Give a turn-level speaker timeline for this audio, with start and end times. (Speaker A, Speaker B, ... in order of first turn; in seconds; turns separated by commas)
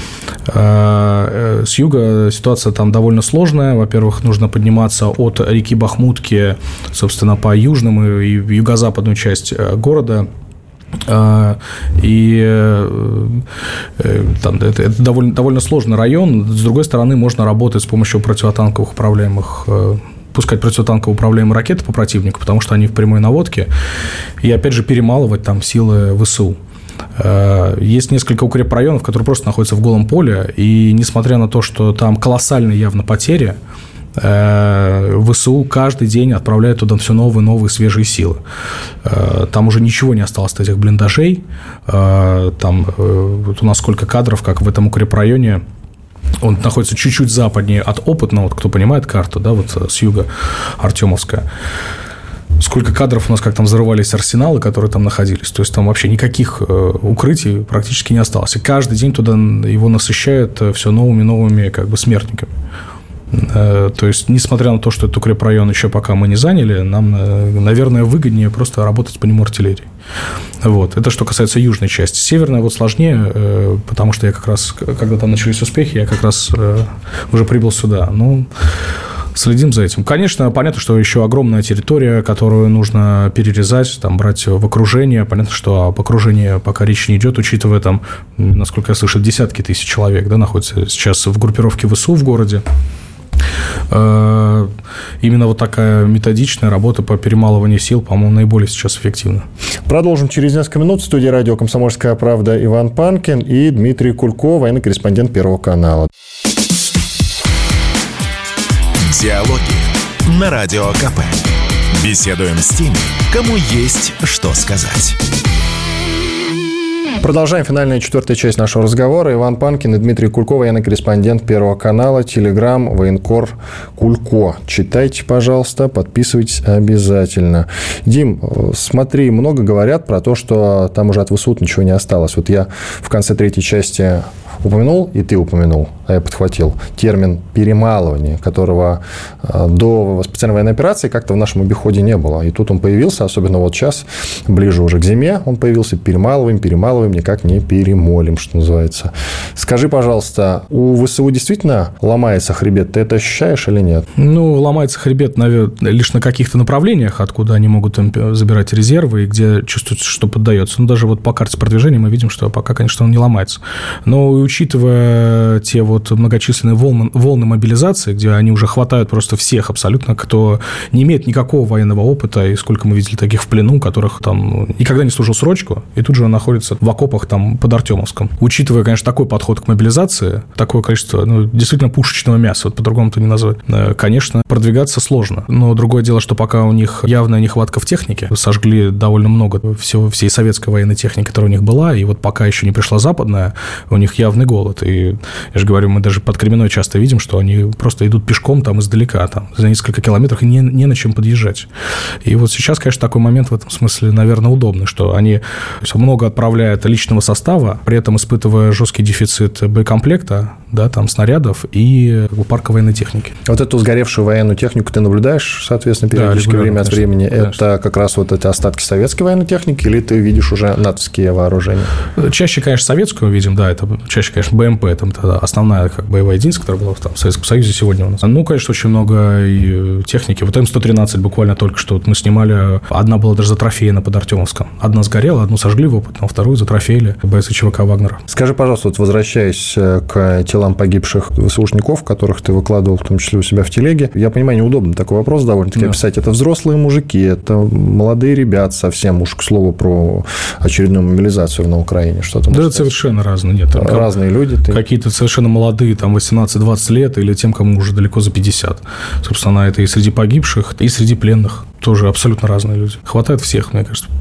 Speaker A: 0.5-10.3, Speaker A: 11.1-13.4, Speaker A: 14.0-23.7, Speaker A: 24.4-26.6, Speaker A: 27.2-33.6, Speaker A: 34.2-38.4, Speaker A: 39.0-45.6, Speaker A: 46.4-51.5, Speaker A: 52.6-62.5, Speaker A: 63.3-69.9, Speaker A: 70.6-78.5, Speaker A: 79.3-92.6, Speaker A: 93.9-99.5, Speaker B: 99.9-106.1, Speaker C: 109.0-115.2, Speaker B: 117.2-154.1, Speaker A: 154.2-201.7, Speaker A: 202.2-213.4, Speaker B: 213.5-221.9, Speaker A: 216.1-217.6, Speaker A: 222.2-238.2, Speaker B: 238.3-252.9, Speaker A: 252.5-254.1, Speaker B: 253.7-254.8, Speaker A: 254.7-264.1